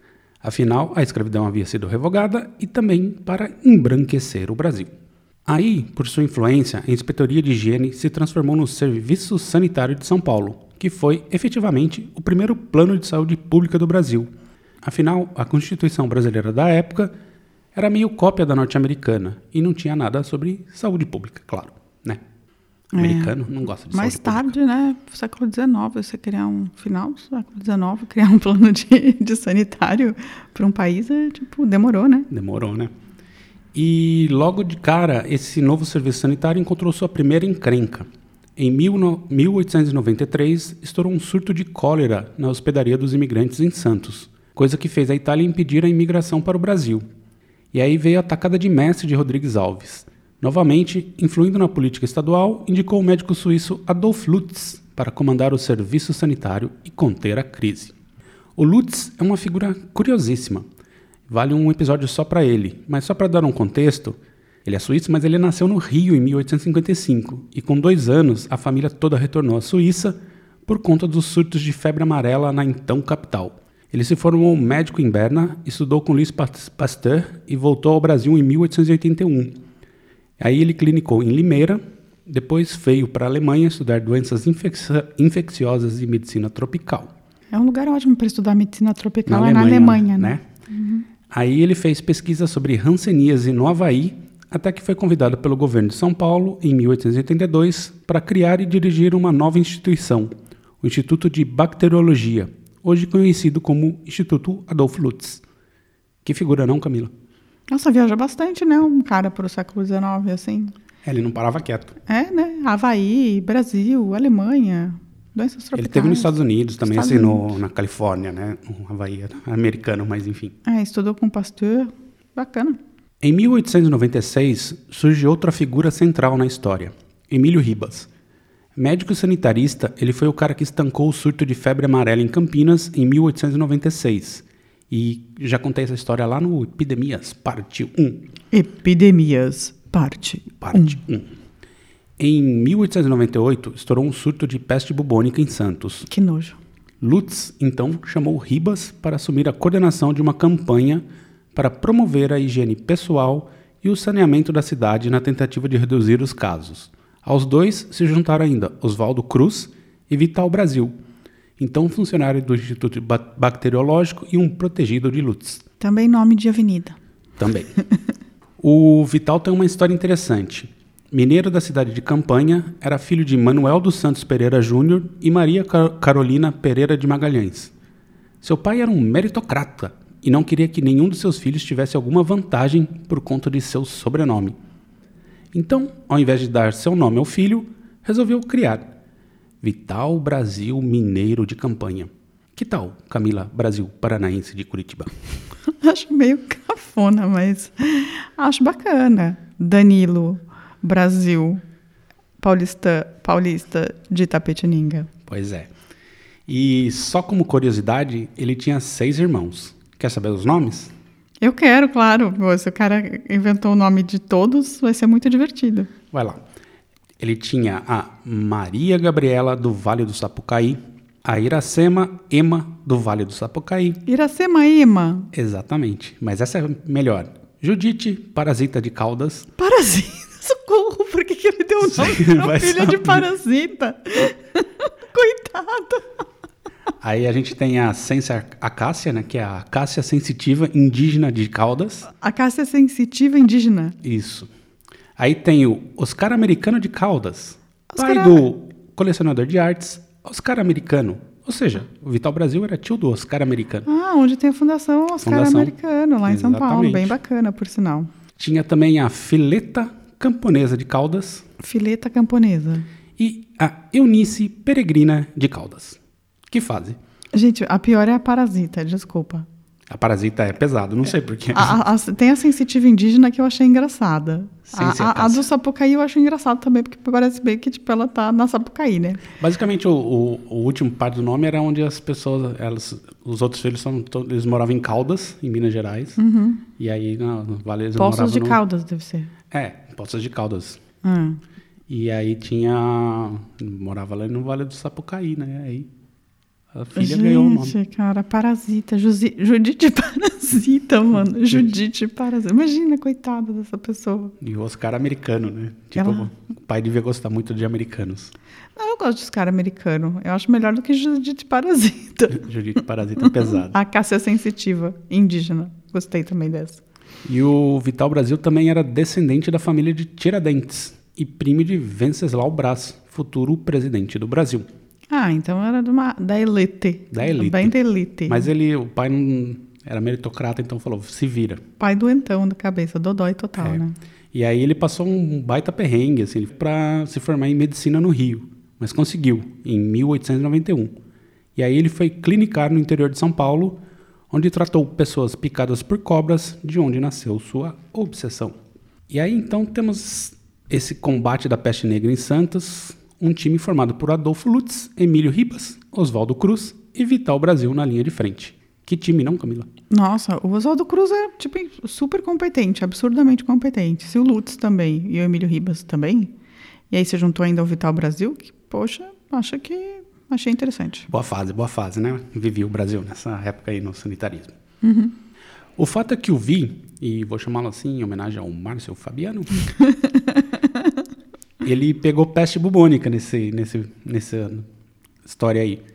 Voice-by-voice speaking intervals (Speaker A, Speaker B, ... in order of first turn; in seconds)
Speaker A: 0.4-4.9, 5.5-14.3, 14.8-17.1, 17.7-22.2, 23.0-24.5, 32.3-32.9, 33.7-47.0, 47.7-57.9, 58.6-60.7, 61.3-79.6, 80.4-87.1, 89.2-90.4, 91.3-105.4, 106.2-107.1, 111.0-112.0, 115.7-120.5, 123.2-128.1, 128.8-138.2, 140.6-141.3, 142.2-146.1, 147.0-161.0, 161.6-165.6, 167.4-167.8, 168.6-177.7, 178.4-184.6, 185.5-188.9, 189.6-195.1, 205.3-205.7, 206.5-210.9, 216.1-216.4, 217.2-224.0, 225.3-229.5, 231.8-233.3, 237.0-242.1, 244.0-244.5, 245.2-253.9, 255.2-255.7, 256.2-257.1, 258.4-261.4, 263.2-266.0, 266.5-267.0, 269.9-271.8, 274.7-275.4, 279.4-286.2, 286.8-288.6, 289.5-290.8, 291.9-295.9, 296.7-297.8, 304.4-308.3, 312.3-313.8, 317.2-324.7, 327.1-327.8, 328.3-331.6, 333.6-340.9, 341.6-348.6, 349.1-359.7, 371.1-374.6, 375.8-379.7, 381.6-384.7, 385.2-385.8
Speaker B: 22.9-23.4, 23.9-32.3, 87.5-91.0, 107.7-110.7, 112.1-116.3, 116.8-117.5, 120.6-122.8, 138.5-141.0, 146.1-146.6, 165.8-167.0, 195.7-201.6, 202.4-205.1, 211.4-215.9, 224.1-225.3, 229.6-236.2, 242.2-244.0, 247.9-248.4, 253.8-258.1, 261.6-262.8, 267.3-269.5, 271.5-279.2, 286.2-286.6, 288.0-289.3, 291.0-291.4, 296.9-304.3, 306.0-306.3, 308.8-312.4, 313.5-316.8, 325.1-328.5, 331.8-333.9, 359.9-366.3, 366.9-371.1, 374.8-375.1, 379.8-380.4